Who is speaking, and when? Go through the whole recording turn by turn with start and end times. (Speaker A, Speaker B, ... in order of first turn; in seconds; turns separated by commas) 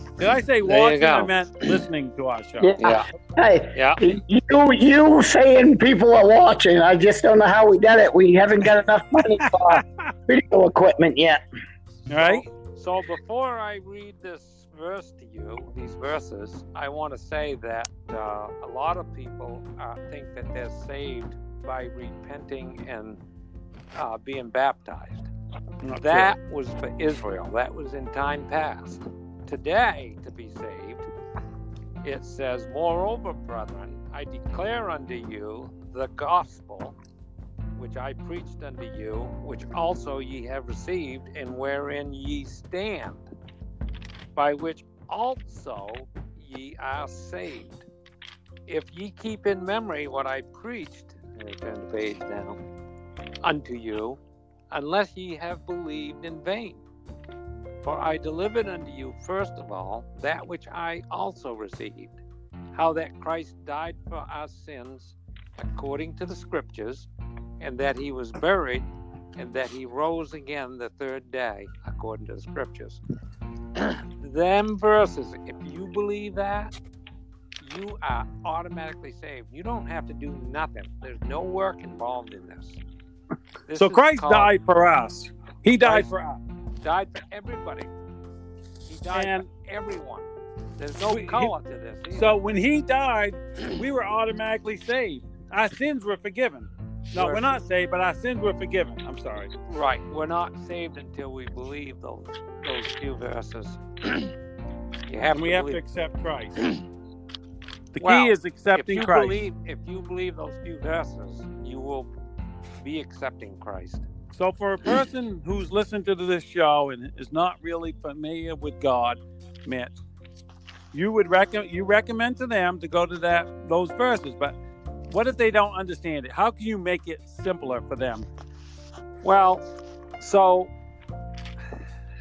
Speaker A: 0.2-2.8, Speaker B: 0.6-1.7, Speaker C: 2.6-11.4, Speaker B: 2.8-3.1, Speaker B: 3.8-4.0, Speaker A: 9.4-10.1, Speaker A: 12.1-12.4, Speaker B: 12.2-23.2, Speaker B: 23.9-25.3, Speaker A: 25.8-26.3, Speaker B: 26.0-31.1, Speaker B: 32.0-37.0, Speaker B: 37.8-43.2, Speaker B: 44.4-47.8, Speaker B: 48.7-52.6, Speaker B: 53.4-54.2, Speaker B: 54.7-56.8, Speaker B: 57.8-62.2, Speaker B: 62.7-67.1, Speaker B: 67.6-68.9, Speaker B: 69.4-73.0, Speaker B: 73.8-76.8, Speaker B: 77.6-82.8, Speaker B: 83.7-84.5, Speaker A: 83.8-86.4, Speaker B: 86.8-87.9, Speaker B: 88.9-90.3, Speaker A: 89.1-89.5, Speaker B: 90.8-92.4, Speaker A: 91.0-91.5, Speaker A: 92.2-99.5, Speaker B: 97.1-97.5, Speaker B: 99.7-104.3, Speaker B: 105.1-105.8, Speaker A: 105.3-106.6, Speaker A: 107.9-109.4, Speaker B: 108.0-112.1, Speaker B: 112.8-114.1, Speaker A: 114.3-120.0, Speaker A: 120.9-124.5, Speaker A: 125.1-128.3, Speaker B: 129.2-129.6, Speaker B: 130.2-130.7